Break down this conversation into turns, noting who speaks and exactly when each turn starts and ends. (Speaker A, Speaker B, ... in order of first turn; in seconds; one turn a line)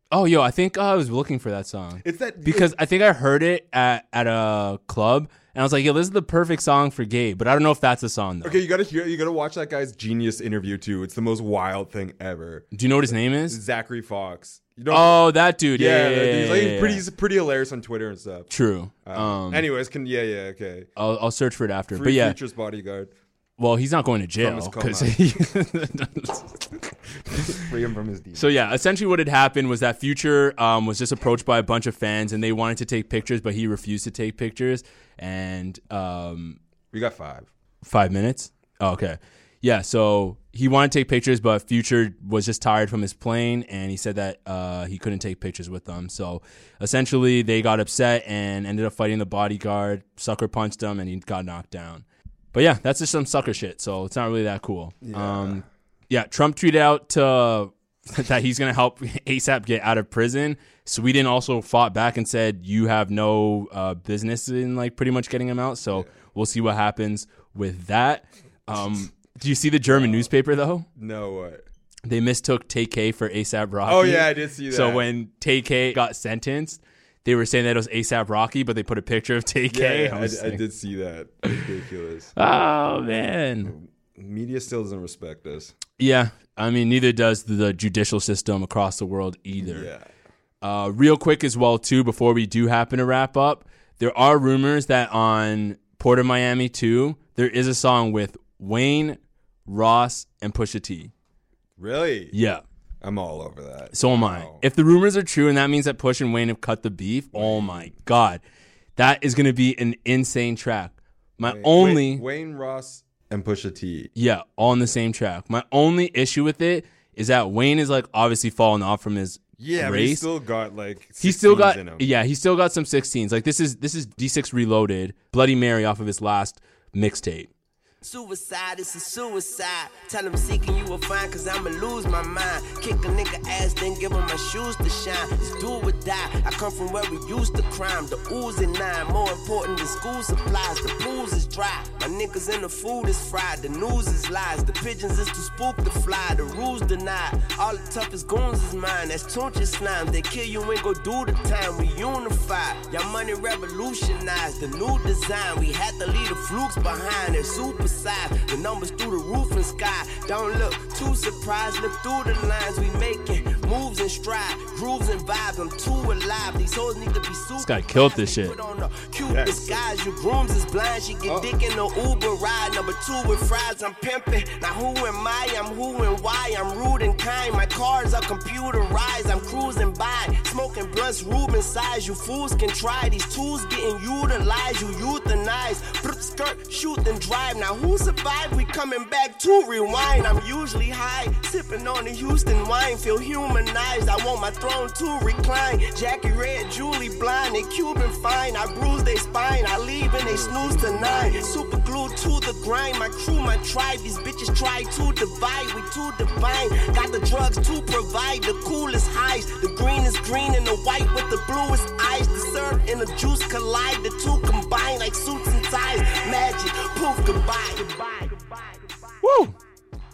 Speaker A: 0.1-8.6
Speaker B: 2.0-2.7
Speaker B: 8.4-18.5
Speaker A: 12.7-13.6
Speaker A: 14.9-17.0
Speaker A: 18.5-19.7
Speaker B: 19.1-20.9
Speaker A: 21.0-22.4
Speaker B: 21.9-23.1
Speaker A: 23.6-26.7
Speaker B: 24.4-25.3
Speaker B: 27.4-28.5
Speaker A: 28.4-36.6
Speaker B: 36.9-37.5
Speaker A: 37.8-70.9
Speaker B: 55.0-55.6
Speaker B: 69.8-70.3
Speaker B: 71.0-71.6
Speaker A: 72.1-80.6
Speaker B: 73.9-75.1
Speaker B: 79.7-82.3
Speaker A: 82.4-83.7
Speaker B: 83.6-85.8
Speaker A: 86.0-89.9
Speaker B: 89.6-90.1
Speaker A: 90.6-101.1
Speaker B: 101.8-102.3
Speaker A: 102.3-102.6
Speaker B: 103.0-104.6
Speaker A: 103.9-108.4
Speaker B: 107.3-108.0
Speaker A: 109.0-112.2
Speaker B: 111.4-114.1
Speaker A: 114.2-120.3
Speaker B: 119.6-122.1
Speaker A: 121.2-127.5
Speaker C: 128.0-218.9
Speaker A: 167.6-168.6
Speaker B: 169.3-169.8
Speaker B: 171.2-171.5
Speaker B: 200.2-201.5
Speaker A: 219.2-219.6